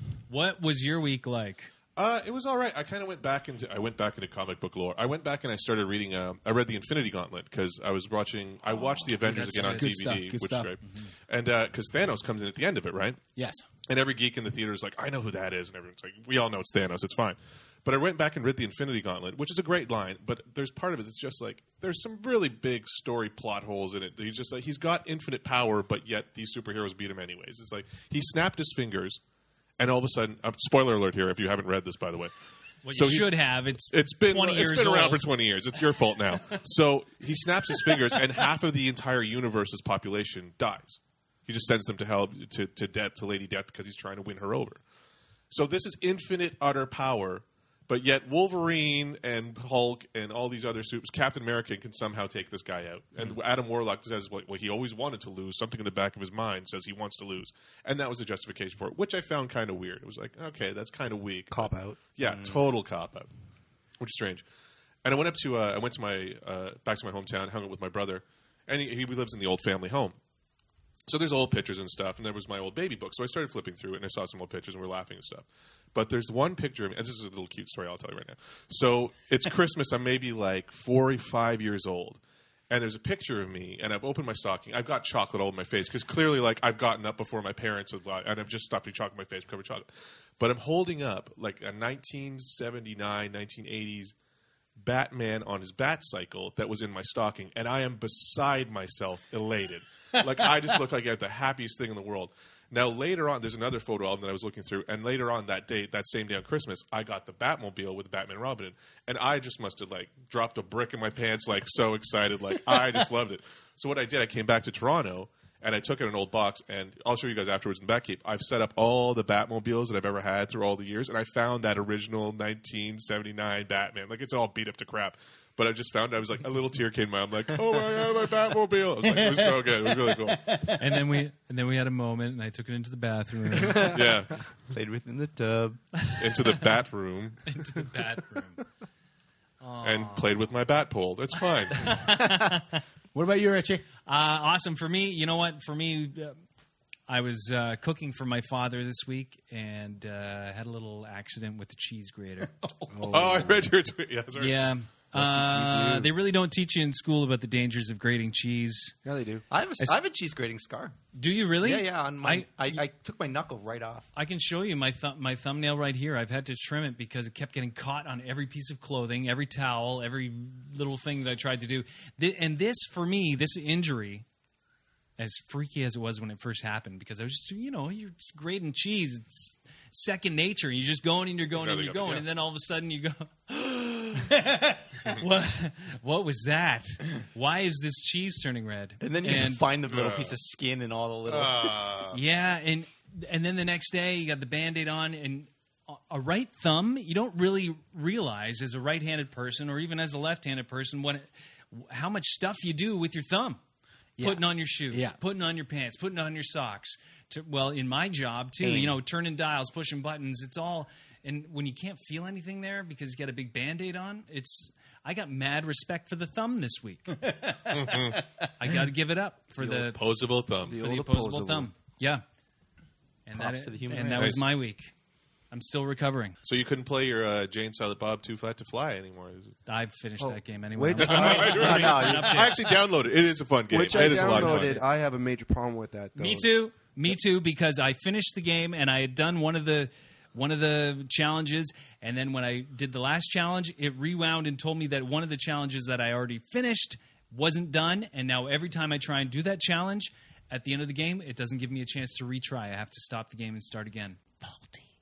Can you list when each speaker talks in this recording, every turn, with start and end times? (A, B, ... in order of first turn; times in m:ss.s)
0:00.3-0:01.7 A
0:02.0-0:13.2 B
0:09.0-0:10.0 A
0:09.3-0:10.7 C
0:10.8-0:11.1 A
0:13.4-0:13.7 C
0:13.9-0:29.2 B
0:29.8-0:32.3 B
0:32.8-0:35.2 A
0:32.9-0:44.8 B
0:45.5-1:03.3 B
1:01.5-1:02.0 D
1:02.2-1:02.6 E
1:04.0-1:04.4 B
1:05.0-1:10.2 B
1:11.1-1:34.1 B
1:34.8-2:10.6 B
2:09.0-2:10.8 C
2:10.8-2:13.9 A
2:13.7-2:14.0 E
2:13.8-2:14.3 B
2:14.7-2:16.0 E
2:16.2-2:17.6 B
2:17.5-2:18.6 A
2:19.6-2:20.4 A
2:19.8-2:22.0 B
2:21.7-2:22.8 A
2:23.1-2:23.8 C
2:24.1-2:26.4 A
2:27.1-2:32.5 A
2:32.9-2:33.7 D
2:33.1-2:34.7 B
2:34.4-2:39.0 A
2:35.1-2:36.1 D
2:39.0-2:39.4 D
2:39.5-2:41.0 E
2:41.2-2:42.8 A
2:41.6-2:44.1 E
2:44.2-2:54.2 A
2:55.2-3:04.4 A
3:01.5-3:02.3 B
3:05.1-3:09.7 A
3:09.0-3:11.8 E
3:09.8-3:10.4 B
3:11.3-3:12.2 B
3:12.1-3:23.6 A
3:24.2-3:25.2 C
3:24.2-3:37.2 A
3:28.6-3:29.0 E
3:37.2-3:38.2 C
3:37.7-3:38.2 B
3:38.6-3:40.0 A
3:39.6-3:40.0 D
3:39.9-3:40.8 B
3:40.6-3:41.7 D
3:40.7-3:42.2 A
3:43.3-3:44.9 A
3:43.3-3:44.4 E
3:44.1-3:44.4 B
3:45.5-3:46.4 A
3:46.4-3:49.5 B
3:49.7-3:52.6 A
3:50.2-3:52.4 D
3:50.9-3:54.8 B
3:53.7-3:56.6 D
3:56.2-4:14.4 A